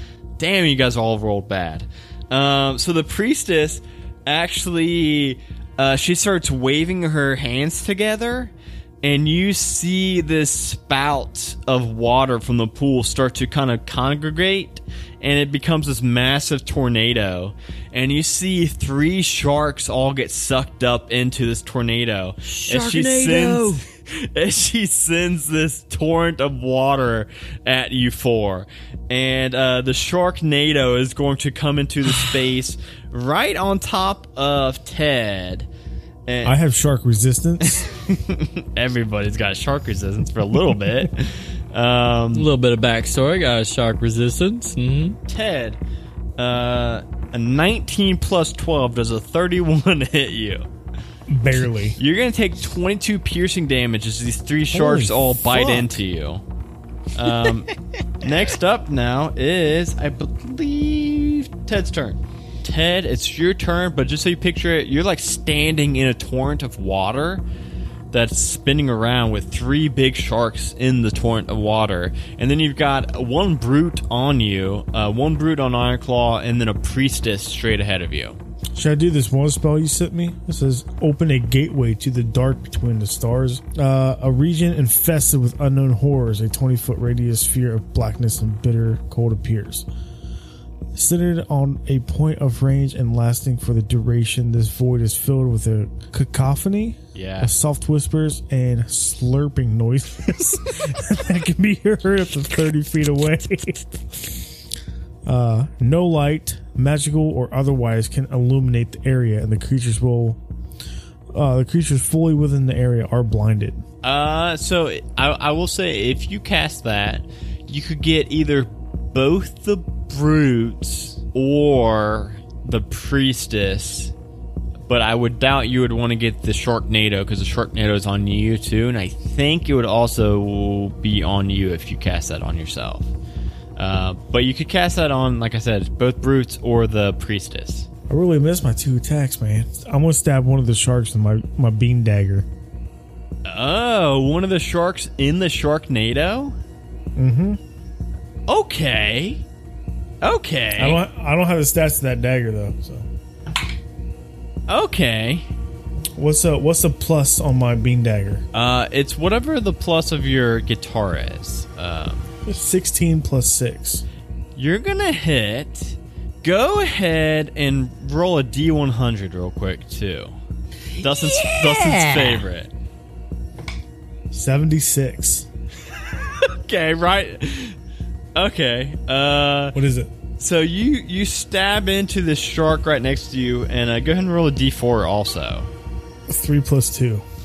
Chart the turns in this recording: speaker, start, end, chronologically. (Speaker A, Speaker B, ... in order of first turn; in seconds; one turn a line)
Speaker A: 0.4-35.7
Speaker B: 22.4-23.8
Speaker A: 36.2-36.6
Speaker C: 36.4-37.9
Speaker A: 37.6-42.5
Speaker B: 42.3-45.2
Speaker A: 45.2-45.8
Speaker A: 46.4-50.6
Speaker C: 51.3-52.0
Speaker A: 52.0-56.4
Speaker C: 54.7-56.0
Speaker A: 57.1-67.4
Speaker A: 68.1-78.4
Speaker C: 78.7-89.8
Speaker C: 90.9-104.4
Speaker A: 97.1-97.5
Speaker C: 105.2-110.4
Speaker C: 111.3-113.8
Speaker A: 114.0-124.1
Speaker A: 124.9-133.1
Speaker A: 133.8-137.9
Speaker C: 138.1-142.5
Speaker A: 143.4-146.6
Speaker C: 147.2-147.6
Speaker A: 148.5-149.4
Speaker A: 150.2-151.0
Speaker C: 150.8-153.1
Speaker A: 154.7-155.4
Speaker C: 156.2-158.4
Speaker A: 158.5-162.3
Speaker C: 162.4-164.0
Speaker A: 164.6-170.3
Speaker A: 170.9-172.7
Speaker B: 171.0-172.4
Speaker C: 174.3-175.5
Speaker A: 176.4-177.8
Speaker A: 178.3-179.8
Speaker C: 179.7-180.1
Speaker A: 180.4-185.7
Speaker C: 186.3-187.2